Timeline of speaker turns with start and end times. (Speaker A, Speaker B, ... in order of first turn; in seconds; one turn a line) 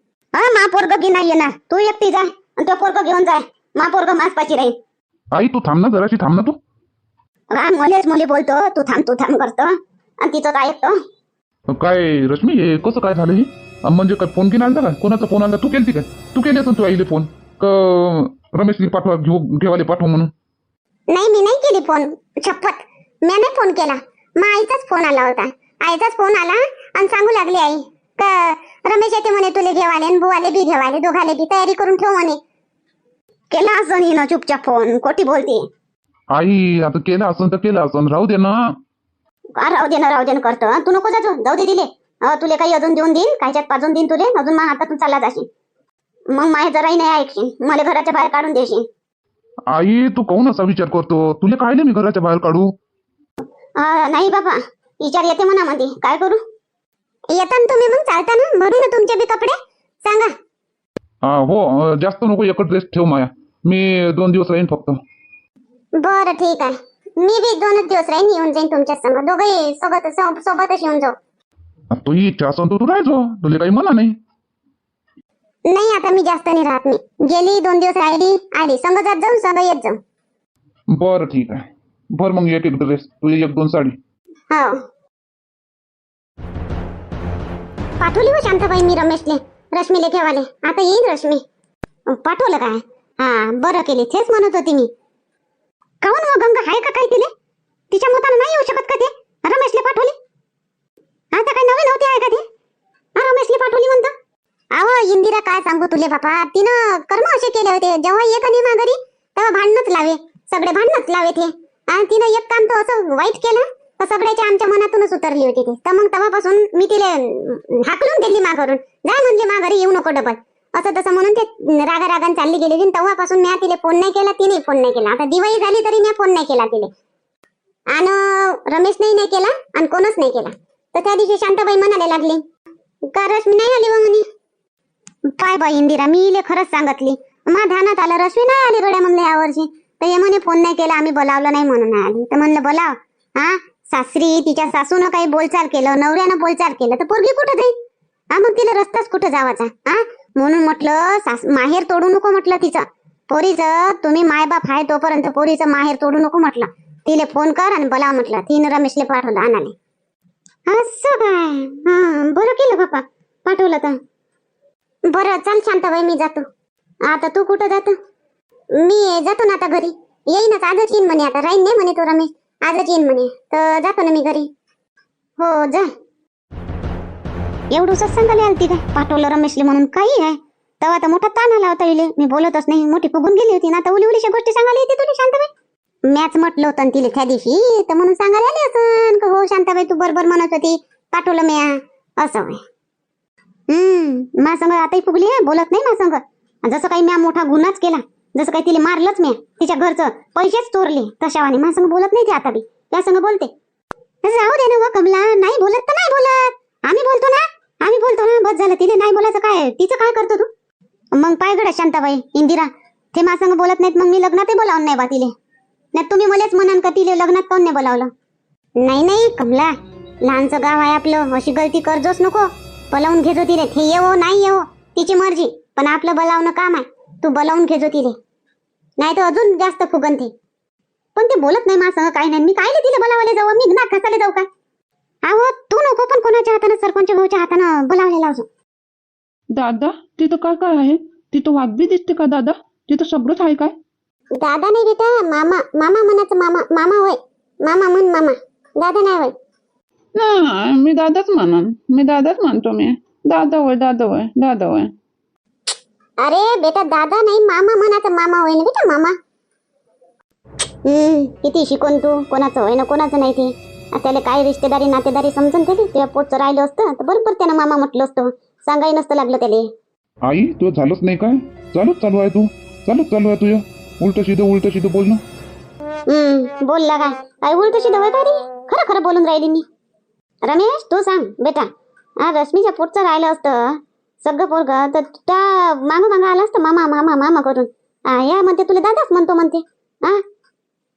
Speaker A: 0.3-4.7
Speaker B: 5.3-6.6
Speaker A: 7.5-11.0
Speaker B: 11.7-20.3
Speaker A: 21.1-32.4
Speaker A: 33.5-35.6
Speaker B: 36.3-38.7
Speaker A: 39.6-45.5
Speaker A: 46.3-48.8
Speaker B: 49.7-52.7
Speaker A: 53.8-56.4
Speaker A: 57.3-60.3
Speaker B: 61.2-65.0
Speaker A: 66.0-71.2
Speaker B: 71.9-74.2
Speaker A: 75.7-80.0
Speaker B: 80.9-84.0
Speaker A: 84.5-84.8
Speaker A: 88.0-91.4
Speaker A: 92.1-94.9
Speaker A: 96.0-97.3
Speaker A: 97.9-100.1
Speaker A: 101.3-102.4
Speaker A: 103.1-104.1
Speaker A: 104.7-126.9
Speaker A: 127.9-132.4
Speaker A: 133.1-134.2
Speaker A: 135.3-147.8
Speaker A: 148.3-159.7
Speaker A: 160.7-163.9
Speaker A: 165.1-166.4
Speaker A: 167.1-167.9
Speaker A: 168.7-174.5
Speaker A: 175.4-175.9
Speaker A: 177.7-185.5
Speaker A: 186.1-192.6
Speaker A: 193.7-203.5
Speaker A: 204.2-210.5
Speaker A: 211.1-215.3
Speaker A: 215.9-218.1
Speaker A: 218.8-219.7
Speaker A: 220.2-228.2
Speaker A: 229.0-230.3
Speaker A: 231.2-234.5
Speaker A: 235.2-238.5
Speaker C: 239.5-243.7
Speaker A: 244.3-249.3
Speaker C: 250.1-254.9
Speaker A: 256.2-259.1
Speaker A: 260.8-269.7
Speaker B: 270.2-275.2
Speaker A: 276.1-279.6
Speaker A: 280.4-281.7
Speaker A: 282.2-290.2